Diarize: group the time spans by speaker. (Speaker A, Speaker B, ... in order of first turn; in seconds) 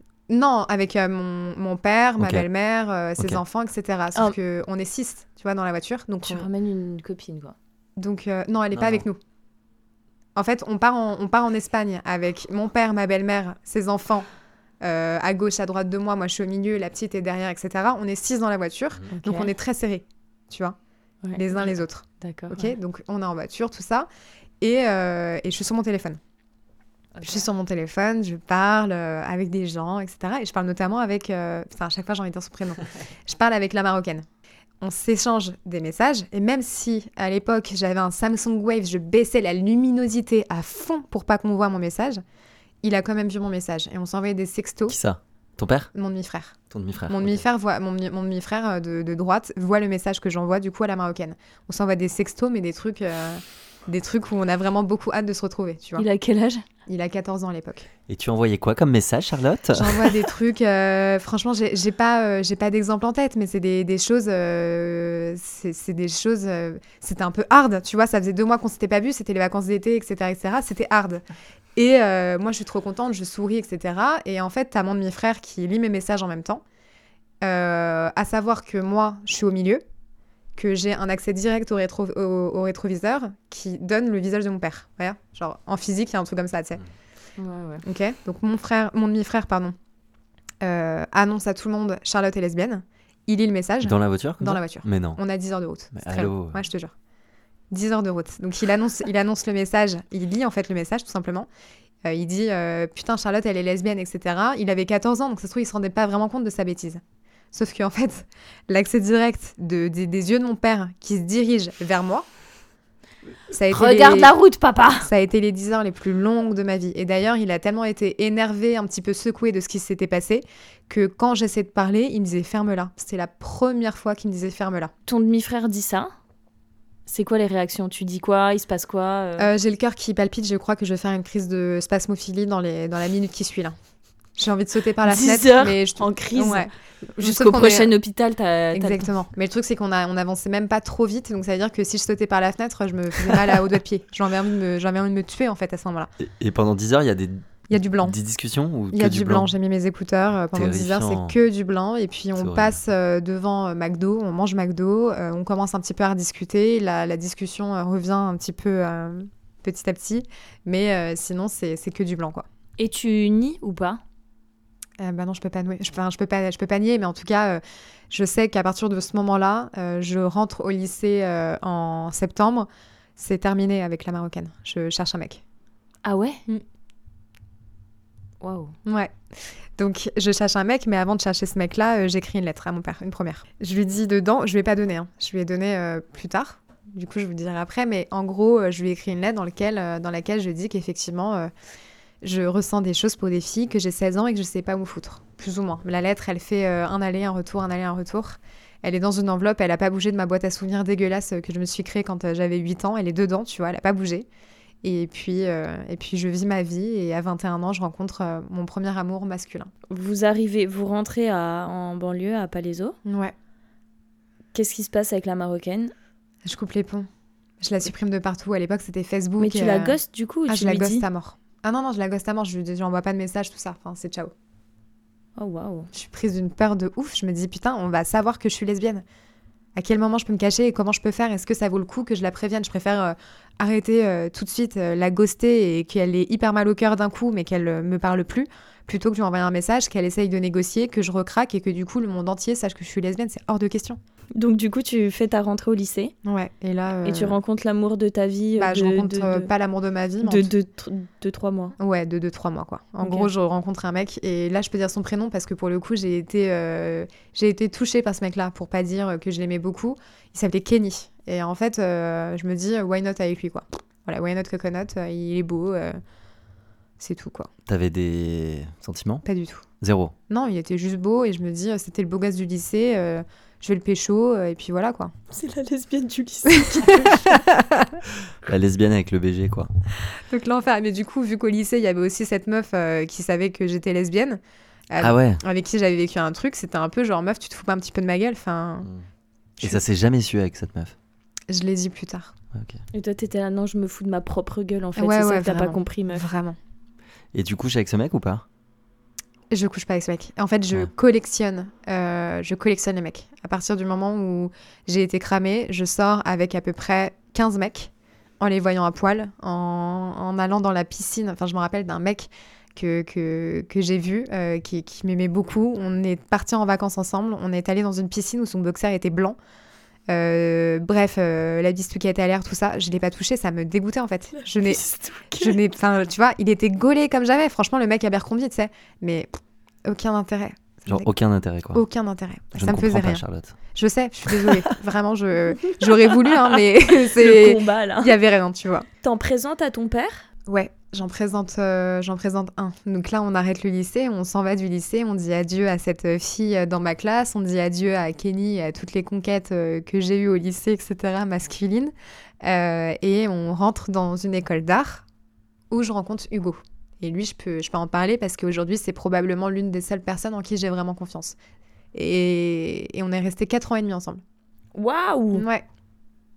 Speaker A: 0.3-6.5, 8.0-9.2, 10.3-14.3, 14.8-20.8, 21.3-24.1, 24.6-26.2, 27.2-34.2, 34.8-42.2, 42.8-44.9, 45.9-46.5, 47.1-56.0, 56.9-57.9, 59.7-71.2, 71.8-76.6, 77.4-79.8, 80.6-86.8, 87.8-89.7, 90.6-96.9, 97.7-101.5, 102.0-107.0, 107.5-112.2, 113.5-114.3, 115.0-124.9, 129.4-133.8, 134.4-137.9, 138.7-146.1, 147.7-148.2, 148.9-162.4, 165.0-175.4, 178.8-179.1, 179.8-191.5, 192.2-204.2, 204.8-209.7, 213.0-213.3, 216.4-217.1, 217.6-220.0, 220.5-224.3, 225.9-229.0, 229.8-244.0, 246.2-247.4, 248.6-250.5, 251.8-266.0, 267.0-267.5, 269.2-269.6, 270.3-275.1, 276.6-278.0, 280.3-288.9, 291.5-292.3, 295.0-296.6, 299.5-319.4, 320.1-331.1, 331.7-338.9, 340.5-351.9, 352.4-355.0, 355.7-361.4, 361.9-364.2, 365.3-365.6
Speaker B: 2.2-2.4, 8.7-9.1, 44.9-45.9, 46.7-47.4, 58.1-60.1, 93.8-95.2, 95.9-96.6, 146.2-149.5, 150.5-151.4, 152.3-152.8, 267.7-269.2, 269.8-270.1, 278.4-279.7, 285.0-285.4, 289.6-290.9, 292.5-292.8, 297.3-298.4, 330.9-331.8, 332.5-333.5
Speaker C: 6.2-7.5, 19.2-19.5, 21.2-22.8, 27.1-27.5, 56.0-56.6, 87.4-87.8, 113.7-115.1, 125.1-126.1, 127.1-129.5, 135.1-139.1, 162.8-164.0, 176.0-176.4, 178.4-178.8, 209.9-213.0, 214.5-215.9, 219.4-221.0, 225.4-225.9, 244.3-246.1, 247.0-249.5, 250.2-251.8, 253.0-253.3, 275.3-277.5, 292.9-296.3, 324.6-325.5, 336.9-338.1, 339.0-340.2, 364.7-365.4